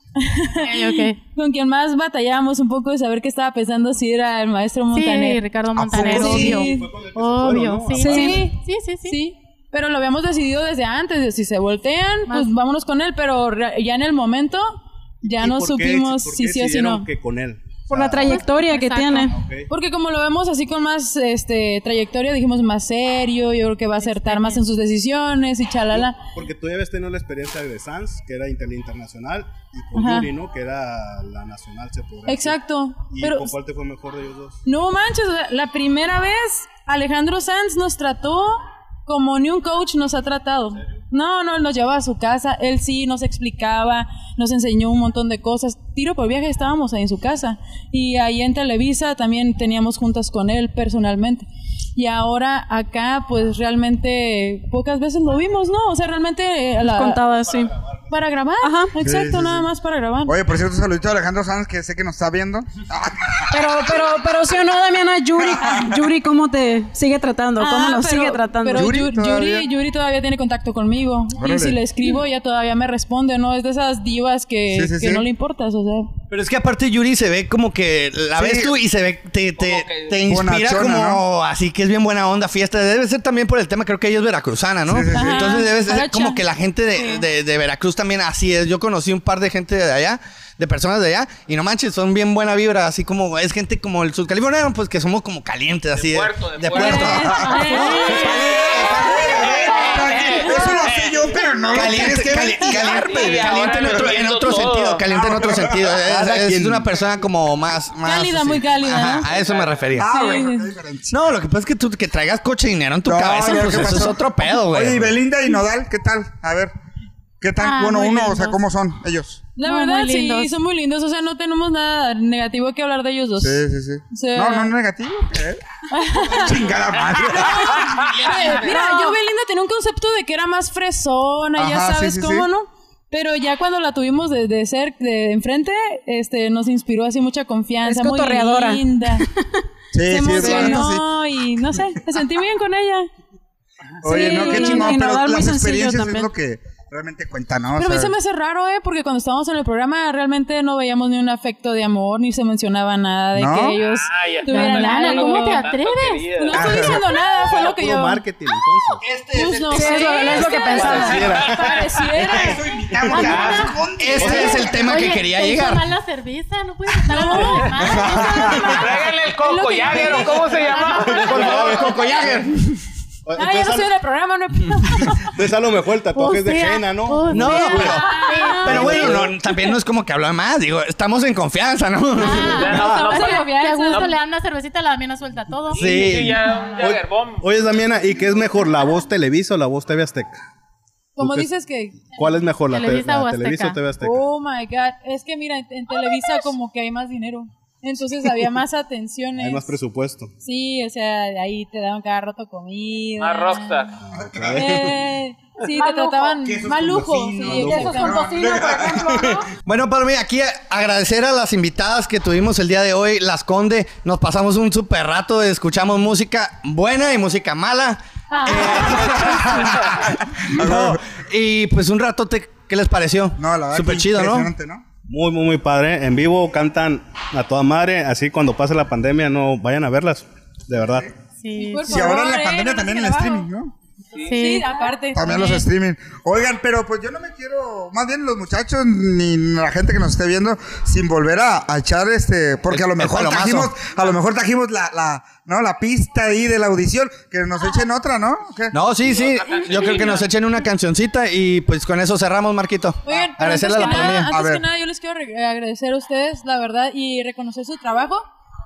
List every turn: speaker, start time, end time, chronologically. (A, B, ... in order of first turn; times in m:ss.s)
0:00.2-0:06.9 A
0:00.6-0:01.2 B
0:04.9-0:09.2 B
0:05.7-0:06.7 C
0:06.2-0:08.2 D
0:08.0-0:17.1 A
0:08.0-0:08.5 E
0:12.3-0:12.6 B
0:15.3-0:18.4 D
0:17.9-0:19.3 E
0:18.2-0:19.4 B
0:19.3-0:19.7 D
0:19.7-0:26.2 A
0:24.0-0:24.6 B
0:26.2-0:34.6 D
0:30.0-0:30.3 A
0:32.3-0:33.6 A
0:34.6-0:57.2 A
0:56.8-0:57.7 E
0:58.1-1:00.4 A
0:58.6-0:59.0 E
0:59.0-0:59.7 C
1:00.2-1:03.8 C
1:03.5-1:09.0 E
1:05.4-1:06.0 C
1:07.6-1:16.1 A
1:08.7-1:09.7 C
1:11.4-1:11.8 C
1:14.7-1:15.3 C
1:16.3-1:40.2 F
1:18.4-1:18.8 C
1:19.6-1:20.1 G
1:20.1-1:21.2 C
1:24.8-1:25.6 C
1:25.1-1:26.4 A
1:27.0-1:27.2 A
1:35.9-1:42.0 G
1:36.7-1:38.3 A
1:37.0-1:44.2 C
1:37.4-1:38.2 B
1:41.7-1:50.1 F
1:42.6-1:45.0 G
1:45.1-1:46.2 C
1:46.0-1:46.9 D
1:48.0-1:49.3 A
1:49.2-1:49.9 G
1:49.9-1:51.2 C
1:50.1-1:50.7 A
1:51.1-1:55.1 F
1:53.0-1:56.7 C
1:57.4-1:59.5 C
1:57.6-1:58.6 B
1:59.6-2:04.7 A
1:59.6-2:00.6 B
2:03.4-2:05.6 C
2:05.9-2:06.7 A
2:06.2-2:08.1 C
2:07.4-2:19.3 A
2:08.1-2:08.6 F
2:08.6-2:09.2 E
2:11.6-2:12.5 C
2:17.8-2:19.6 E
2:19.9-2:21.1 C
2:20.1-2:23.1 A
2:20.3-2:20.9 E
2:24.0-2:26.3 E
2:24.0-2:28.2 C
2:24.1-2:24.9 A
2:27.8-2:35.7 A
2:33.4-2:33.8 C
2:33.9-2:36.6 G
2:34.5-2:36.3 B
2:36.3-2:38.2 A
2:36.5-2:37.0 C
2:37.4-2:39.0 D
2:39.0-2:41.0 F
2:39.3-2:43.3 A
2:39.7-2:41.2 E
2:39.8-2:41.2 B
2:40.6-2:41.9 G
2:40.9-2:41.8 D
2:42.2-2:44.9 C
2:43.1-2:43.7 B
2:43.2-2:43.7 G
2:43.2-2:45.9 F
2:44.2-2:48.8 B
2:47.1-2:51.2 A
2:47.8-2:48.9 C
2:48.5-2:51.9 G
2:50.6-2:51.2 B
2:51.0-2:52.4 D
2:51.3-2:52.8 F
2:51.7-2:52.0 B
2:53.3-2:53.9 D
2:53.4-2:55.3 A
2:54.9-2:58.0 D
2:56.1-2:59.2 B
2:57.3-3:02.7 F
2:57.8-2:59.0 A
2:58.6-2:59.4 D
3:02.2-3:06.1 B
3:02.2-3:04.1 A
3:02.2-3:04.2 G
3:05.7-3:07.4 G
3:05.8-3:06.4 F
3:06.8-3:10.4 D
3:11.2-3:12.1 A
3:11.2-3:11.5 D
3:12.0-3:14.2 D
3:12.6-3:13.8 B
3:14.0-3:19.8 A
3:19.4-3:20.3 D
3:20.4-3:23.9 A
3:23.2-3:23.9 G
3:24.0-3:25.0 D
3:24.1-3:25.0 C
3:24.4-3:28.6 A
3:25.7-3:26.4 E
3:26.4-3:29.4 C
3:27.5-3:27.8 D
3:27.7-3:29.4 E
3:29.6-3:44.5 F
3:38.3-3:38.7 B
3:38.7-3:41.0 C
3:43.4-3:44.8 C
3:45.1-3:51.1 D
3:51.4-3:52.2 B
3:51.6-3:53.5 A
3:51.9-3:53.7 C
3:54.2-3:55.6 B
3:54.3-3:55.6 A
3:55.1-4:08.8 C
4:02.7-4:03.7 F
4:08.7-4:14.3 F
4:09.0-4:10.4 G
4:13.0-4:18.2 A
4:14.3-4:14.6 C